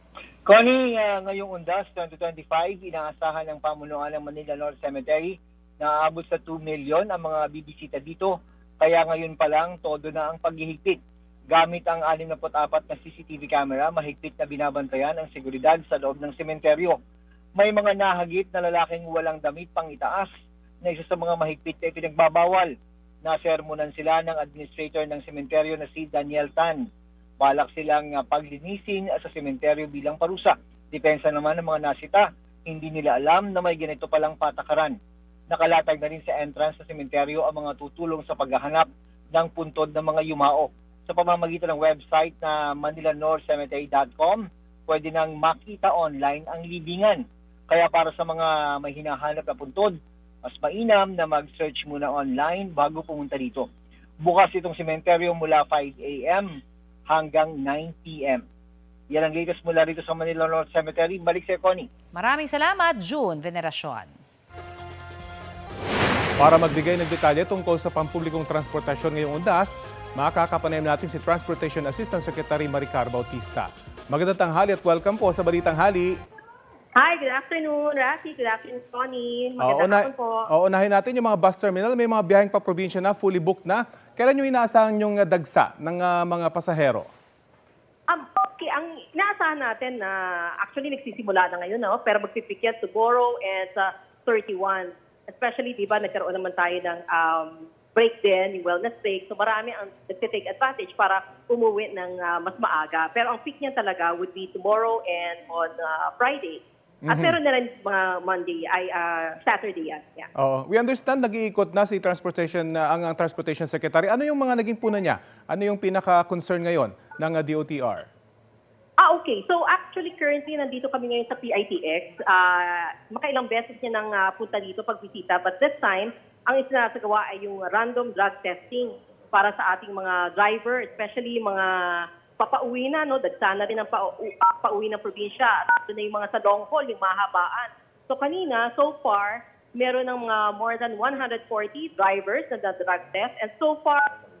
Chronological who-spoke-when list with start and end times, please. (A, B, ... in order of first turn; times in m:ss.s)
0:00.4-0:17.0 A
0:17.6-0:20.3 A
0:20.8-0:26.9 A
0:27.4-0:35.0 A
0:35.5-0:53.7 A
0:54.2-0:56.5 A
0:57.1-0:58.4 A
0:59.1-1:01.9 A
1:02.1-1:04.1 B
1:06.4-1:16.1 C
1:17.0-1:20.4 D
1:19.6-1:27.1 C
1:28.1-1:50.3 D
1:47.0-1:47.4 C
1:50.4-1:58.1 C
1:59.0-2:24.0 D